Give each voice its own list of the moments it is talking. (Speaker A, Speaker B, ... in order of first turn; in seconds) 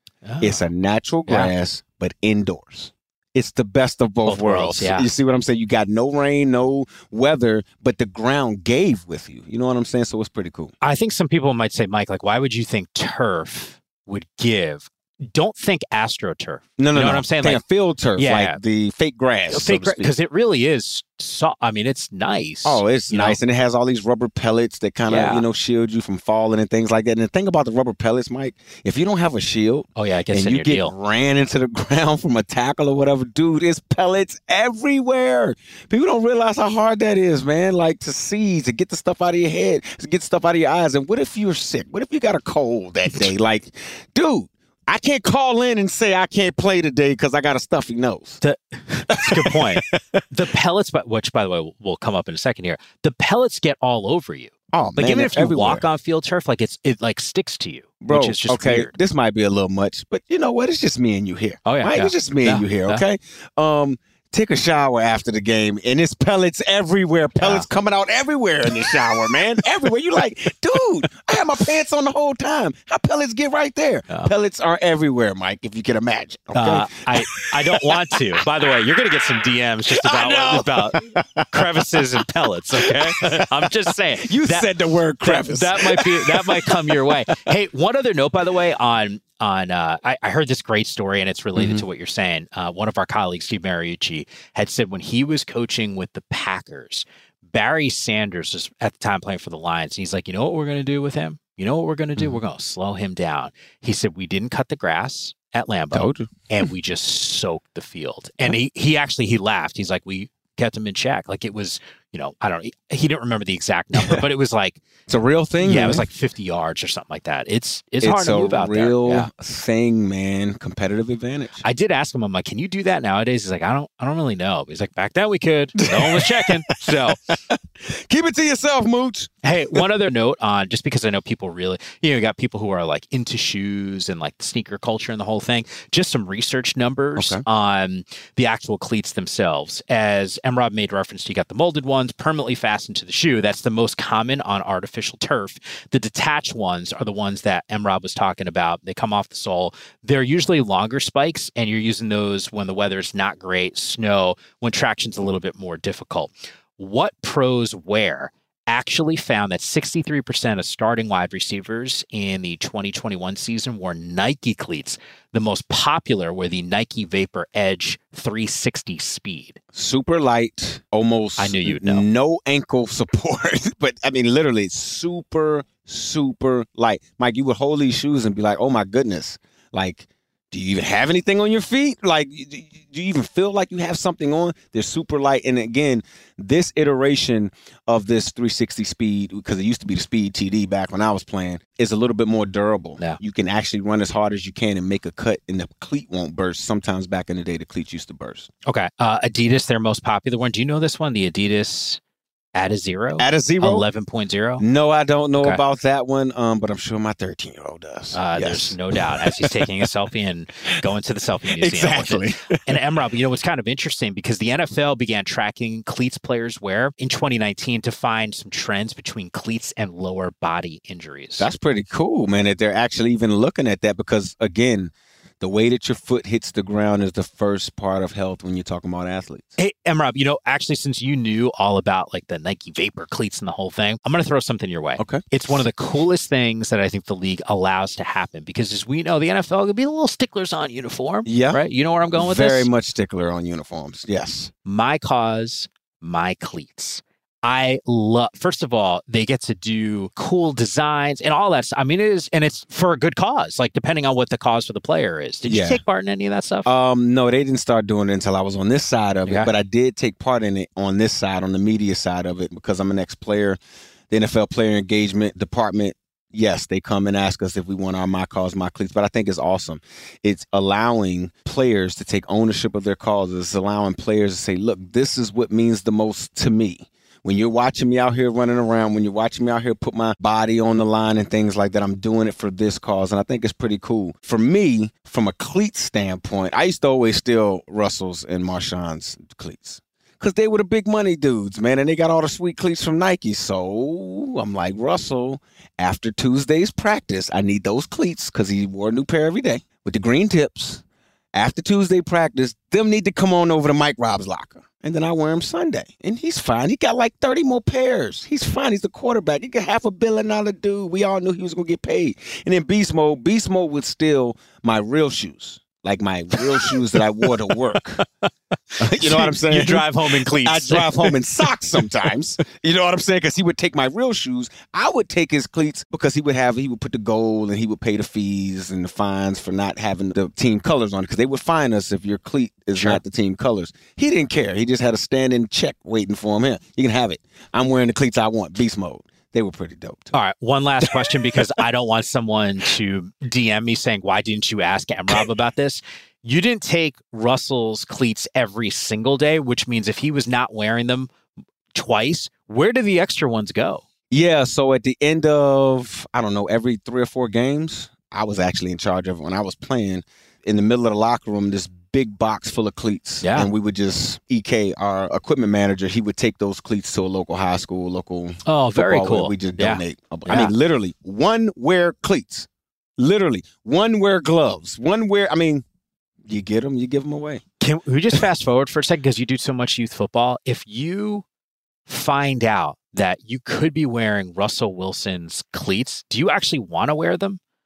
Speaker A: 0.2-0.7, 1.3-1.5, 4.2-5.1, 10.8-17.6, 18.2-18.6, 19.5-23.4, 25.1-25.4, 30.0-30.9, 48.4-58.9, 61.7-63.0, 67.4-67.7, 68.9-69.2, 76.5-84.7, 85.2-114.8, 115.6-119.3, 121.6-127.2, 129.4-169.6, 171.4-172.0, 198.7-202.0, 202.6-204.6, 208.1-221.5, 229.6-242.7, 244.7-256.7, 316.5-318.0, 318.7-321.2, 332.7-333.0, 340.1-351.1, 351.7-353.8, 363.2-363.5, 368.5-370.5, 377.6-381.2, 381.9-387.4
Speaker B: 0.4-10.7, 16.8-20.1, 22.6-48.4, 49.1-50.2, 54.7-55.9, 58.0-78.2, 79.9-82.0, 82.7-87.4, 91.6-91.8, 105.9-106.7, 115.1-116.1, 118.0-121.6, 125.8-129.8, 137.2-137.4, 169.7-198.5, 203.2-203.9, 204.6-209.9, 211.5-212.8, 221.4-229.6, 235.0-235.2, 241.3-244.5, 255.4-255.8, 256.6-263.6, 264.1-300.8, 301.4-318.0, 318.8-340.1, 340.9-341.4, 354.1-375.6, 376.2-377.4